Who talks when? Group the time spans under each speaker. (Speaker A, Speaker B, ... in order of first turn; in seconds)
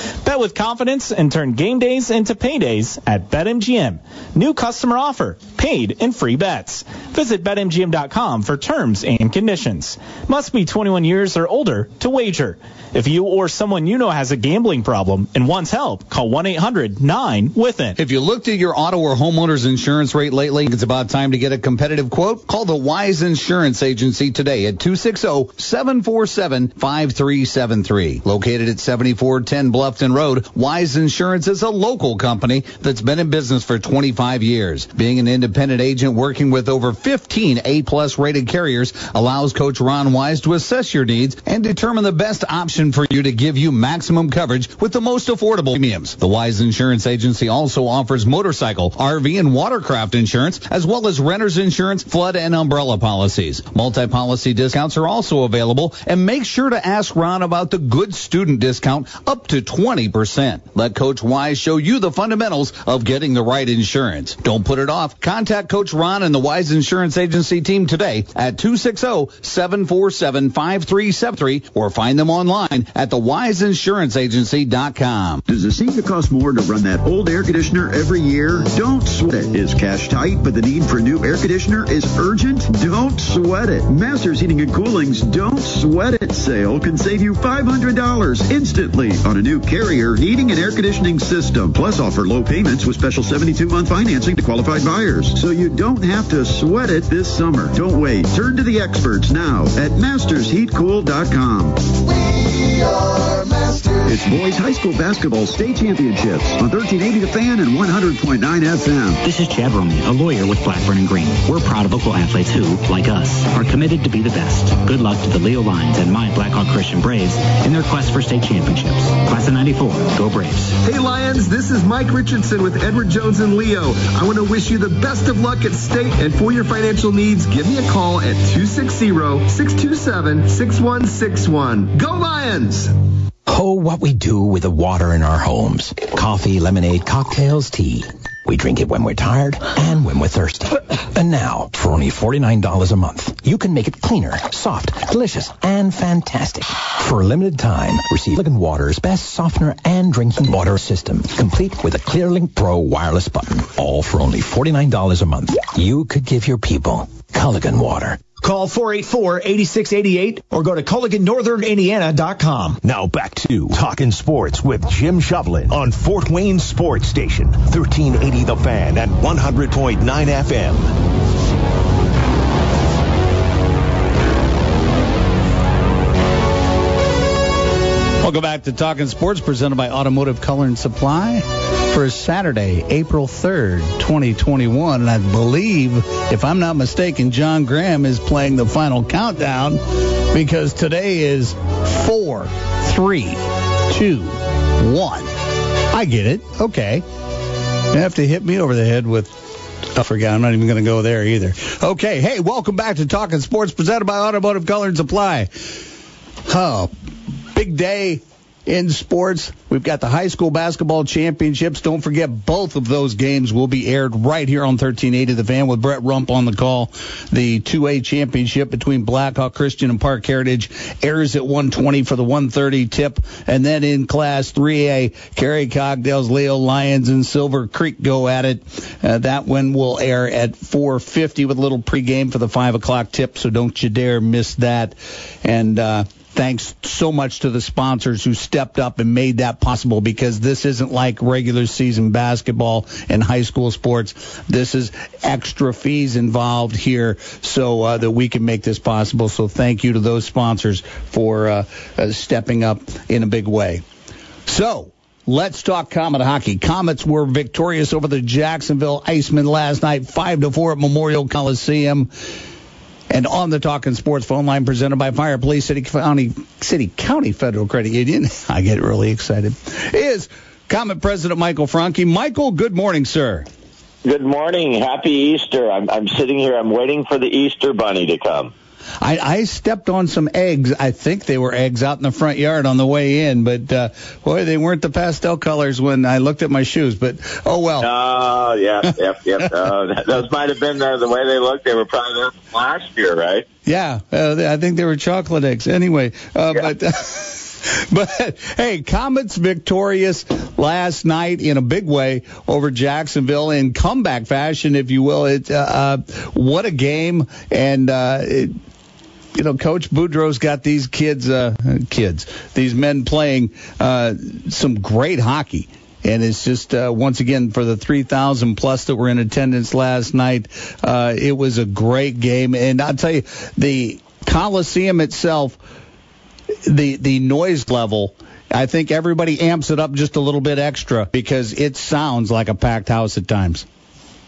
Speaker A: 0.2-18.0
Speaker B: 18.0-75.4, 178.2-195.3, 195.9-197.1, 197.9-205.8, 206.4-206.9, 207.5-253.8, 254.4-262.1, 263.1-273.5, 279.0-287.9, 293.6-308.5, 309.3-325.6, 326.6-333.6
Speaker C: 75.5-109.2
Speaker D: 109.2-120.8
Speaker E: 120.8-132.9
Speaker F: 133.4-158.3
Speaker G: 158.3-162.8
Speaker H: 162.8-170.9
Speaker I: 274.0-278.5, 287.8-293.4